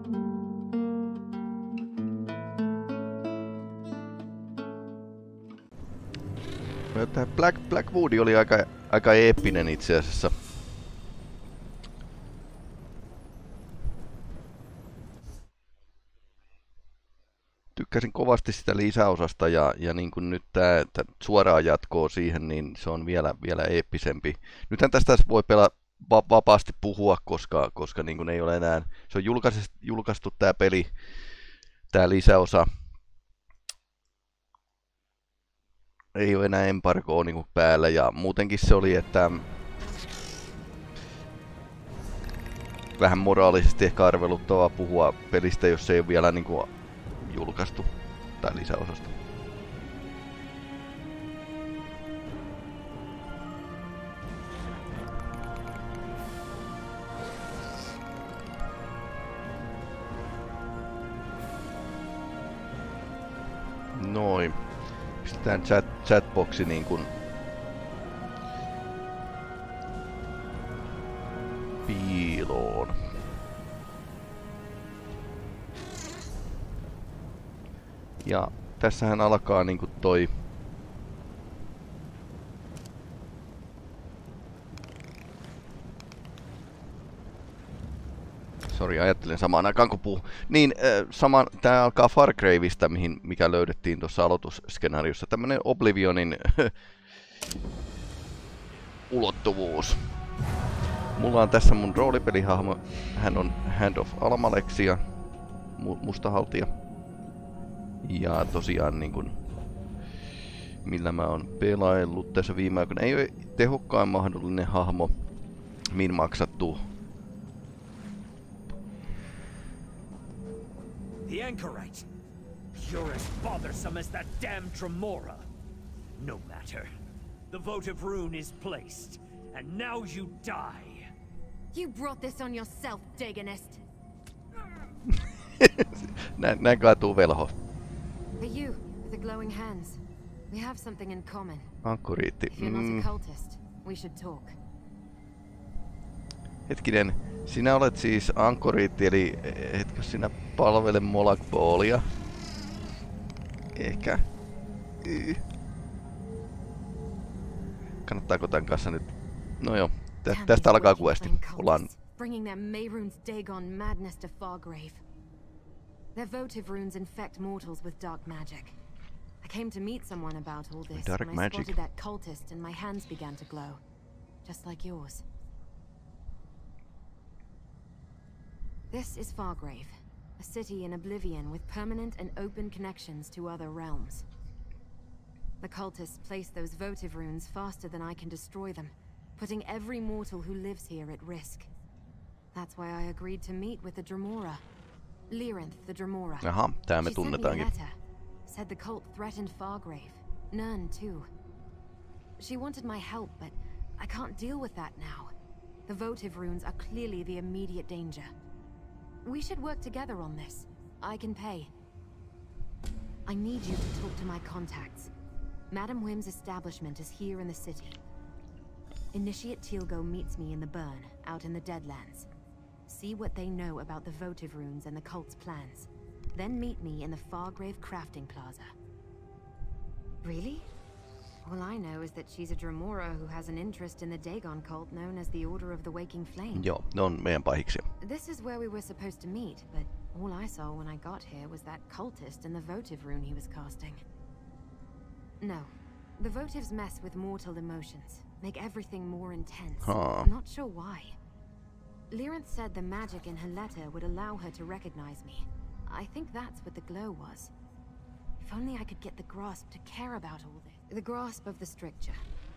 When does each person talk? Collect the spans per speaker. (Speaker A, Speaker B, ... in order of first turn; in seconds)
Speaker A: 6.9-10.4, 17.7-30.9, 31.9-32.7, 36.1-39.5, 43.0-46.7, 47.2-49.2, 63.9-64.6, 65.2-67.1, 71.8-73.0, 78.2-80.3, 88.7-96.8, 99.1-100.1, 101.1-105.0, 105.8-106.7, 108.0-109.4, 110.8-115.1, 115.9-116.8, 135.1-137.6, 141.8-143.1, 146.7-152.1, 153.7-154.2, 155.0-155.4, 158.0-161.9, 170.9-171.8, 196.4-197.7, 236.5-237.9, 249.8-250.3
Speaker B: 121.2-122.1, 122.7-125.5, 126.2-126.9, 127.5-131.1
Speaker C: 131.7-133.8, 138.4-141.7, 142.5-144.6, 160.3-165.0, 166.1-168.8, 169.4-173.8, 174.4-175.2, 178.9-184.2, 185.6-191.7, 192.5-194.6, 195.3-201.3, 202.4-205.3, 205.9-208.3, 209.2-211.7, 213.2-215.1, 215.7-218.0, 219.1-222.3, 222.9-228.7, 230.2-230.7, 231.4-236.7, 238.0-244.0, 245.4-251.2, 252.1-257.5, 258.4-262.2